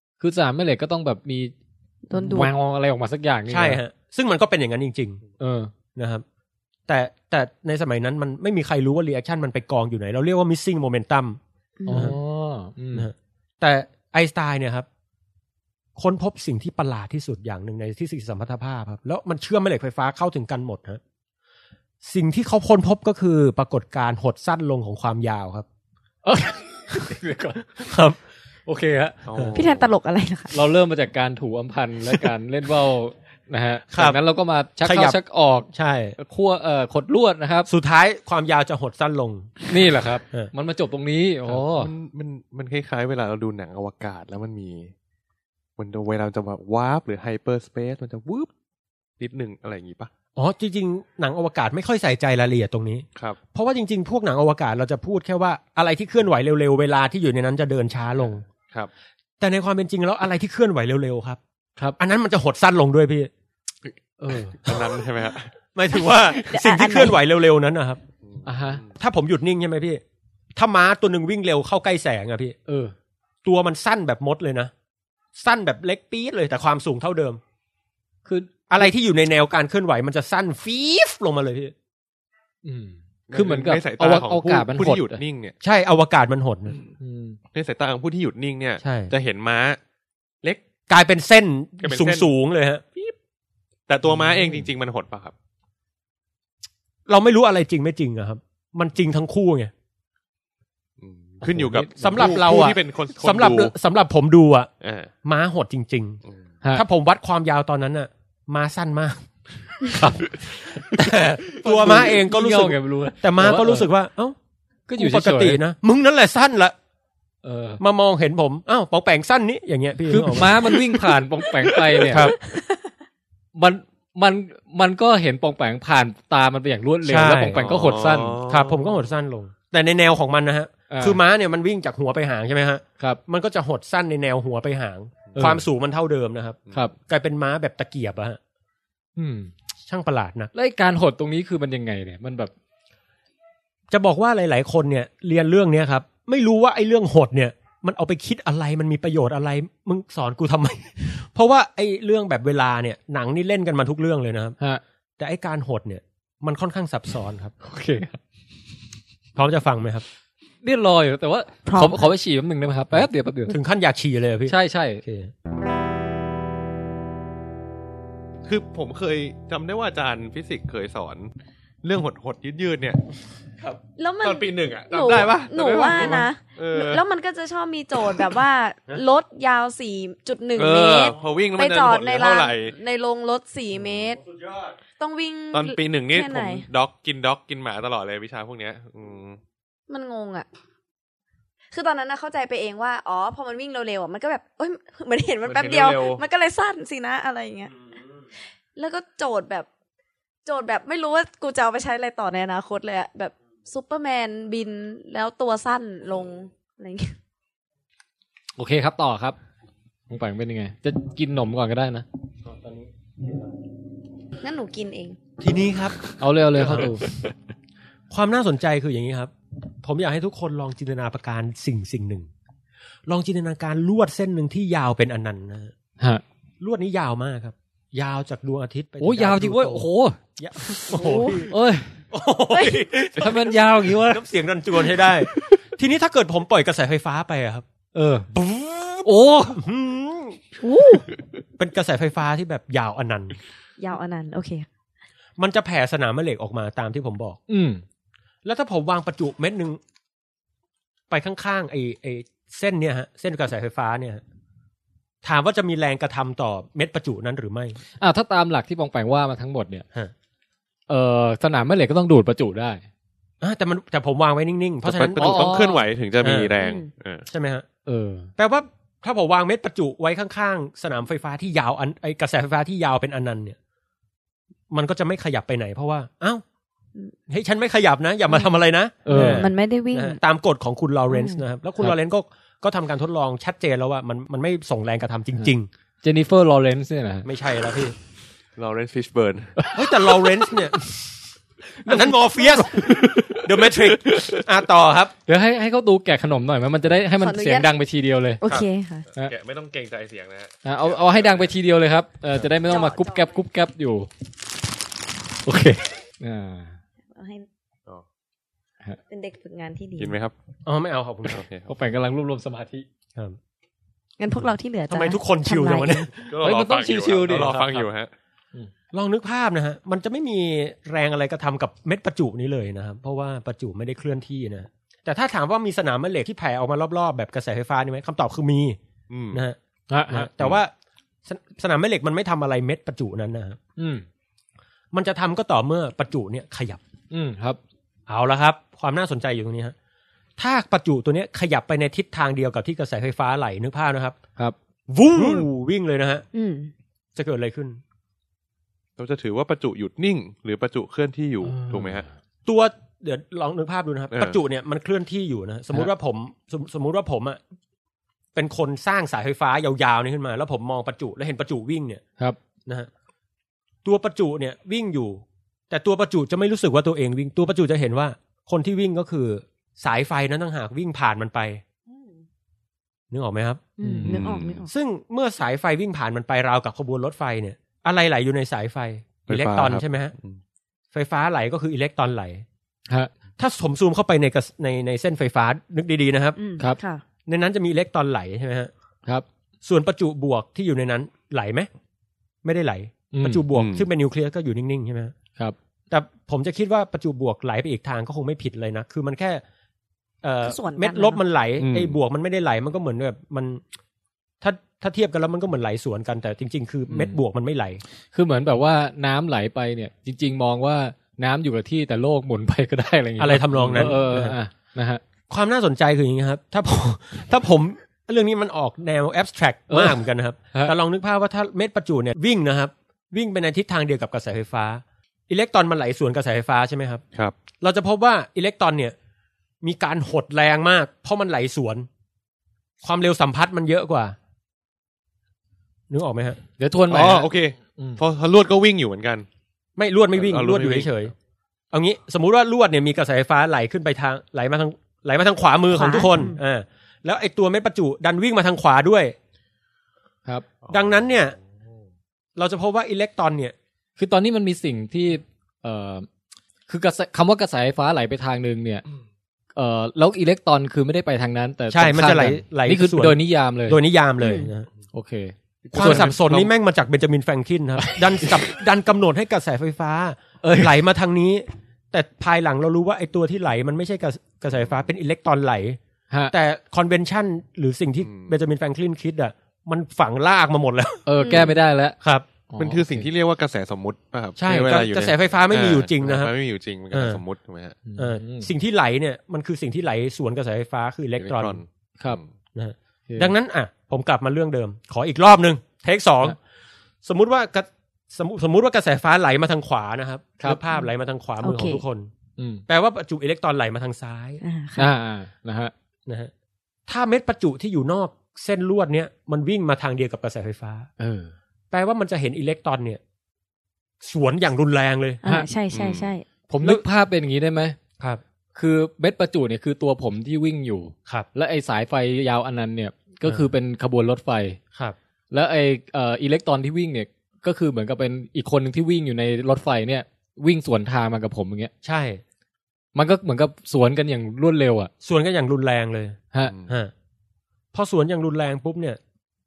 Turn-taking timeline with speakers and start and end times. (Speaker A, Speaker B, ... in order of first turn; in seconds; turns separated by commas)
Speaker A: 0.2-1.5, Speaker B: 2.1-2.5, Speaker A: 2.2-3.8, Speaker C: 3.5-5.2, Speaker A: 5.4-5.7, Speaker C: 6.0-6.2, Speaker C: 6.9-11.4, Speaker B: 11.8-12.1, Speaker A: 11.9-13.1, Speaker C: 12.9-14.9, Speaker C: 16.0-21.0, Speaker C: 22.0-25.7, Speaker A: 26.2-27.9, Speaker C: 27.8-28.2, Speaker A: 28.7-29.3, Speaker D: 29.3-29.9, Speaker C: 29.3-29.6, Speaker B: 29.6-30.5, Speaker A: 30.5-37.7, Speaker C: 33.9-34.2, Speaker C: 34.8-35.2, Speaker C: 35.7-36.2, Speaker C: 37.7-39.6, Speaker A: 39.7-41.9, Speaker D: 41.5-44.9, Speaker D: 45.8-48.5, Speaker D: 49.2-50.1, Speaker C: 50.4-58.5, Speaker C: 59.4-61.4, Speaker C: 62.0-63.3, Speaker A: 64.2-64.6, Speaker D: 64.5-65.6, Speaker C: 65.8-68.0, Speaker B: 66.5-67.2, Speaker D: 68.3-68.8, Speaker A: 68.4-68.8, Speaker C: 69.0-70.0, Speaker C: 70.5-72.6, Speaker A: 72.7-72.9, Speaker C: 73.4-74.7, Speaker C: 75.3-77.4, Speaker A: 78.2-78.7, Speaker C: 78.7-81.7, Speaker A: 82.7-85.2, Speaker D: 83.3-85.5, Speaker C: 85.6-86.8, Speaker A: 87.0-87.4, Speaker D: 87.5-89.8, Speaker C: 88.8-89.1, Speaker C: 90.9-92.8, Speaker D: 91.8-92.3, Speaker D: 93.9-95.3, Speaker C: 97.1-99.7, Speaker D: 101.0-103.7, Speaker A: 101.4-102.4, Speaker C: 102.0-104.7, Speaker D: 104.8-105.1, Speaker C: 105.2-109.3, Speaker A: 110.0-110.3, Speaker C: 110.8-114.4, Speaker A: 111.6-113.9, Speaker A: 114.9-115.6, Speaker C: 115.0-116.8, Speaker A: 117.4-117.8, Speaker C: 117.8-120.8, Speaker A: 120.1-122.3, Speaker C: 122.1-122.4, Speaker B: 122.5-122.8, Speaker A: 123.5-128.4, Speaker C: 127.0-127.7, Speaker D: 127.6-129.0, Speaker C: 128.4-138.4, Speaker A: 130.9-131.2, Speaker A: 135.3-135.6, Speaker A: 139.2-139.5, Speaker C: 139.9-140.5, Speaker A: 140.5-142.5, Speaker C: 143.9-154.6, Speaker C: 155.2-157.5, Speaker A: 157.6-158.2, Speaker C: 159.3-160.1, Speaker A: 160.6-163.6, Speaker B: 161.7-162.1, Speaker C: 162.9-165.3, Speaker A: 164.5-165.0, Speaker D: 168.5-171.3, Speaker D: 171.8-173.1, Speaker B: 174.0-184.2, Speaker D: 174.2-177.0, Speaker D: 180.6-182.8, Speaker B: 185.0-186.7, Speaker D: 185.5-189.4, Speaker B: 189.9-190.5, Speaker B: 191.7-197.8, Speaker D: 195.4-196.2, Speaker B: 198.8-199.7, Speaker B: 200.4-207.2, Speaker A: 208.6-209.4, Speaker A: 210.1-212.1, Speaker C: 212.5-212.9, Speaker B: 214.4-215.2, Speaker C: 215.4-216.9, Speaker A: 216.2-217.1, Speaker C: 218.1-222.3, Speaker C: 223.1-225.7, Speaker C: 226.6-229.9, Speaker A: 229.0-230.9, Speaker C: 230.4-231.6, Speaker B: 230.9-231.5, Speaker A: 231.4-232.0, Speaker C: 232.1-237.7, Speaker B: 232.5-232.9, Speaker A: 233.2-234.2, Speaker A: 234.9-235.2, Speaker A: 237.9-238.3, Speaker C: 238.3-240.5, Speaker A: 239.1-239.6, Speaker B: 240.6-241.1, Speaker C: 241.6-243.4, Speaker B: 243.8-244.7, Speaker C: 245.4-247.4, Speaker A: 247.5-247.8, Speaker C: 248.4-249.8, Speaker C: 251.1-254.2, Speaker C: 255.2-257.8, Speaker A: 258.0-259.9, Speaker A: 260.9-262.9, Speaker C: 263.4-265.6, Speaker D: 264.8-267.3, Speaker A: 265.2-265.9, Speaker C: 266.2-266.5, Speaker B: 266.6-266.9, Speaker C: 267.3-267.7, Speaker A: 267.9-268.3, Speaker C: 268.4-273.6, Speaker C: 274.7-276.4, Speaker C: 277.3-285.7, Speaker A: 279.1-279.5, Speaker B: 279.1-280.2, Speaker B: 281.1-281.4, Speaker A: 286.0-287.3, Speaker C: 287.2-288.0, Speaker D: 288.6-289.6, Speaker C: 289.7-291.2, Speaker C: 291.8-295.1, Speaker D: 292.8-294.4, Speaker A: 295.3-298.4, Speaker B: 297.2-297.7, Speaker B: 298.4-299.1, Speaker D: 298.5-301.4, Speaker A: 300.6-304.1, Speaker B: 302.7-303.4, Speaker A: 305.4-306.8, Speaker B: 307.1-307.5, Speaker B: 309.1-310.2, Speaker D: 310.0-310.3, Speaker C: 310.7-311.4, Speaker D: 311.3-311.7, Speaker A: 311.7-312.9, Speaker B: 314.2-316.1, Speaker C: 314.9-316.4, Speaker D: 316.3-318.1, Speaker A: 316.4-317.9, Speaker C: 318.9-328.8, Speaker D: 329.1-329.4, Speaker C: 329.3-329.6, Speaker A: 329.9-330.3, Speaker C: 330.1-330.7, Speaker C: 331.3-333.6, Speaker A: 333.8-334.1, Speaker C: 334.9-336.8, Speaker A: 337.1-337.6, Speaker C: 338.1-339.8, Speaker C: 340.4-344.2, Speaker C: 344.9-346.2, Speaker B: 346.3-346.7, Speaker C: 347.2-347.8, Speaker D: 349.0-352.1, Speaker A: 351.5-352.1, Speaker C: 352.5-357.4, Speaker D: 354.1-354.4, Speaker C: 358.3-362.0, Speaker C: 363.8-371.6, Speaker B: 371.9-372.2, Speaker C: 373.1-373.6, Speaker B: 373.8-374.7, Speaker A: 373.8-374.2, Speaker D: 374.0-374.7, Speaker C: 374.7-380.1, Speaker D: 379.3-380.4, Speaker C: 380.9-382.4, Speaker C: 383.4-386.4, Speaker B: 386.4-387.0, Speaker C: 387.3-388.7, Speaker C: 389.6-391.7, Speaker C: 392.4-395.1, Speaker A: 393.1-393.4, Speaker D: 393.5-393.9, Speaker C: 395.9-399.4, Speaker C: 400.2-403.6, Speaker B: 400.4-401.2, Speaker D: 401.6-402.0, Speaker C: 404.4-407.8, Speaker A: 406.9-407.2, Speaker A: 408.1-415.0, Speaker C: 413.2-414.4, Speaker D: 413.6-413.9, Speaker C: 415.3-427.0, Speaker A: 419.7-420.0, Speaker C: 427.6-428.9, Speaker C: 429.6-431.9, Speaker C: 432.8-434.2, Speaker C: 435.9-436.4, Speaker A: 436.6-438.0, Speaker D: 436.9-439.3, Speaker C: 439.8-441.1, Speaker D: 440.1-440.9, Speaker C: 441.7-449.2, Speaker B: 445.7-446.4, Speaker D: 450.6-451.1, Speaker C: 450.7-451.4, Speaker C: 452.4-453.6, Speaker A: 454.0-456.1, Speaker A: 456.7-458.9, Speaker A: 459.6-463.8, Speaker C: 461.7-464.7, Speaker B: 464.2-464.5, Speaker A: 464.9-466.1, Speaker D: 465.6-466.5, Speaker C: 465.7-475.8, Speaker A: 467.8-468.3, Speaker A: 470.4-470.8, Speaker C: 476.3-481.4, Speaker D: 478.0-478.4, Speaker A: 481.1-482.0, Speaker B: 481.2-481.6, Speaker C: 482.0-482.3, Speaker A: 482.5-483.1, Speaker D: 482.6-487.8, Speaker C: 484.4-486.3, Speaker C: 486.9-487.2, Speaker A: 487.9-488.5, Speaker C: 488.0-491.6, Speaker D: 491.2-492.3, Speaker C: 492.6-496.4, Speaker C: 497.0-502.1, Speaker B: 501.4-501.8, Speaker A: 502.4-502.6, Speaker C: 502.7-504.4, Speaker B: 504.4-504.9, Speaker A: 504.8-505.7, Speaker C: 506.1-506.3, Speaker C: 506.9-510.9, Speaker A: 511.0-511.3, Speaker C: 511.7-513.0, Speaker C: 514.0-515.2, Speaker B: 515.2-516.3, Speaker D: 515.7-516.1, Speaker A: 516.5-517.8, Speaker A: 518.5-524.6, Speaker A: 525.3-531.7, Speaker C: 531.8-532.2, Speaker A: 533.0-534.9, Speaker C: 535.0-536.9, Speaker D: 536.5-536.7, Speaker C: 537.7-539.0